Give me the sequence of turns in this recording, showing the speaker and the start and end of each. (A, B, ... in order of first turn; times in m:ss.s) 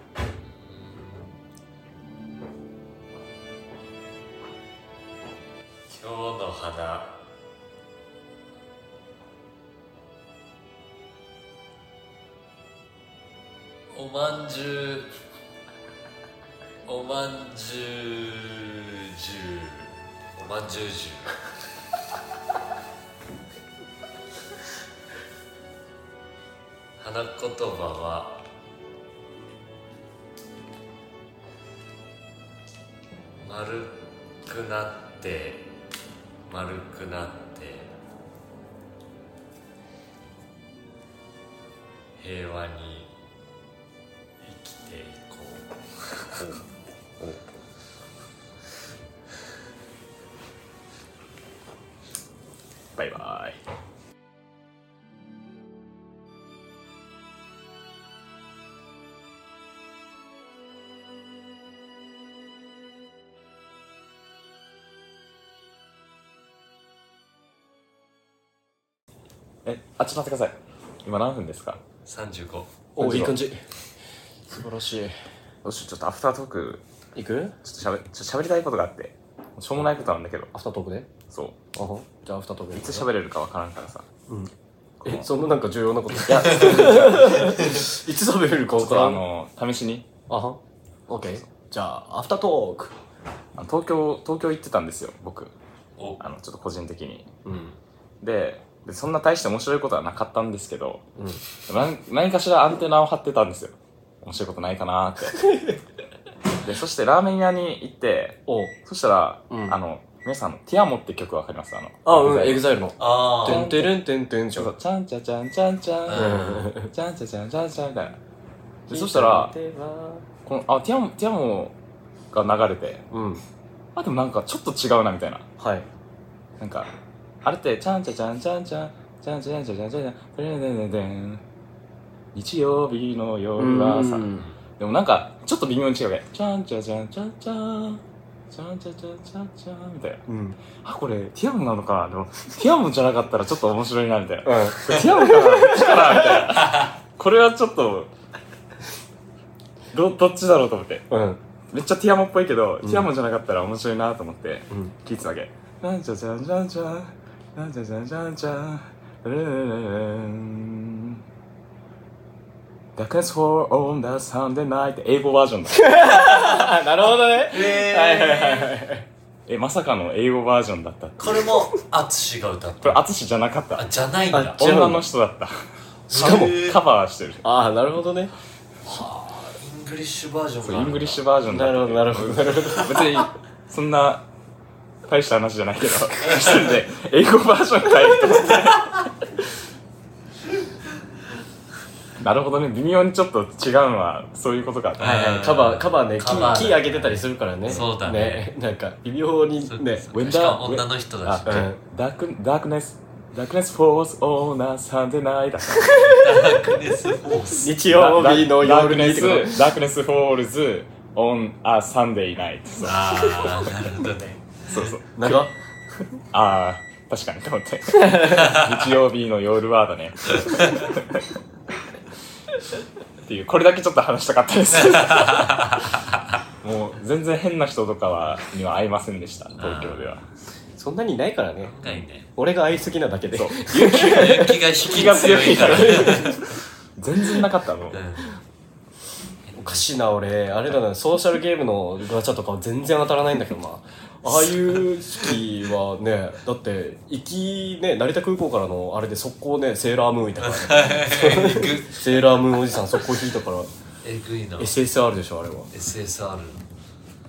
0:00.7-0:01.3 A
0:05.9-0:07.1 A
0:13.9-0:15.1 A
0:16.8-0:21.4 A
0:27.0-0:28.4 A
0:33.4-0:35.7 A
0:36.5-0:37.9 A
0:42.2-0:43.1 A
0:44.4-0:46.6 A
0:53.0-0:53.6 B
1:09.6-1:11.8 B
1:12.0-1:12.7 A
1:13.0-1:13.6 C
1:13.0-1:13.4 B
1:14.5-1:15.1 C
1:15.6-1:16.8 B
1:17.1-1:17.6 C
1:17.6-1:20.5 B
1:20.5-1:21.1 C
1:21.3-1:21.6 B
1:21.7-1:23.1 C
1:22.7-1:24.1 B
1:25.0-1:25.3 B
1:25.0-1:29.2 C
1:26.3-1:27.7 B
1:28.8-1:30.1 B
1:30.3-1:32.9 C
1:33.6-1:35.5 B
1:36.2-1:37.3 B
1:37.4-1:37.8 C
1:38.2-1:41.0 B
1:41.6-1:45.5 B
1:45.4-1:45.8 C
1:46.6-1:52.6 B
1:48.5-1:48.7 C
1:49.5-1:49.8 C
1:52.0-1:54.7 C
1:53.0-1:53.6 A
1:53.4-1:54.0 B
1:54.5-1:58.2 B
1:56.1-1:56.7 A
1:56.1-1:56.9 C
1:58.9-2:00.2 C
1:58.9-1:59.5 B
2:00.4-2:01.8 B
2:02.3-2:03.0 B
2:03.1-2:03.4 C
2:03.9-2:05.4 B
2:05.6-2:05.8 C
2:06.6-2:06.9 B
2:07.4-2:11.4 B
2:12.3-2:20.2 B
2:13.6-2:14.5 C
2:20.3-2:20.6 C
2:20.8-2:28.1 B
2:24.4-2:26.5 C
2:29.9-2:31.1 B
2:31.1-2:31.4 C
2:31.7-2:41.2 B
2:32.8-2:33.1 C
2:43.0-2:46.0 B
2:45.7-2:49.0 C
2:46.1-2:48.7 A
2:49.5-2:51.4 B
2:51.2-2:53.0 A
2:52.8-2:53.9 B
2:53.8-2:54.6 A
2:54.3-2:55.0 C
2:54.6-2:55.6 B
2:56.1-2:56.8 A
2:56.1-2:57.4 B
2:56.1-2:56.6 C
2:57.4-2:58.3 C
2:58.8-3:01.2 A
3:00.6-3:04.2 B
3:01.5-3:03.0 C
3:05.1-3:09.5 B
3:12.2-3:15.3 B
3:15.0-3:18.5 A
3:15.0-3:20.0 C
3:19.7-3:21.7 A
3:20.1-3:26.0 B
3:21.4-3:21.8 C
3:25.7-3:26.4 C
3:26.0-3:27.7 A
3:27.4-3:29.7 C
3:27.9-3:33.7 B
3:32.8-3:34.9 A
3:34.7-3:35.4 B
3:35.1-3:35.5 C
3:36.3-3:41.3 B
3:37.9-3:38.5 C
3:38.4-3:38.7 A
3:43.2-3:45.7 B
3:44.8-3:45.8 A
3:46.6-3:50.2 B
3:49.6-3:50.1 A
3:50.8-3:51.7 C
3:51.6-3:52.3 A
3:52.4-3:54.6 C
3:53.3-3:54.3 B
3:53.8-3:56.4 A
3:54.8-3:58.0 B
3:55.6-3:56.4 C
3:57.9-3:58.2 A
3:59.5-3:59.8 A
3:59.6-4:13.7 C
4:10.4-4:12.2 A
4:14.0-4:14.7 A
4:14.6-4:15.7 C
4:15.7-4:16.6 A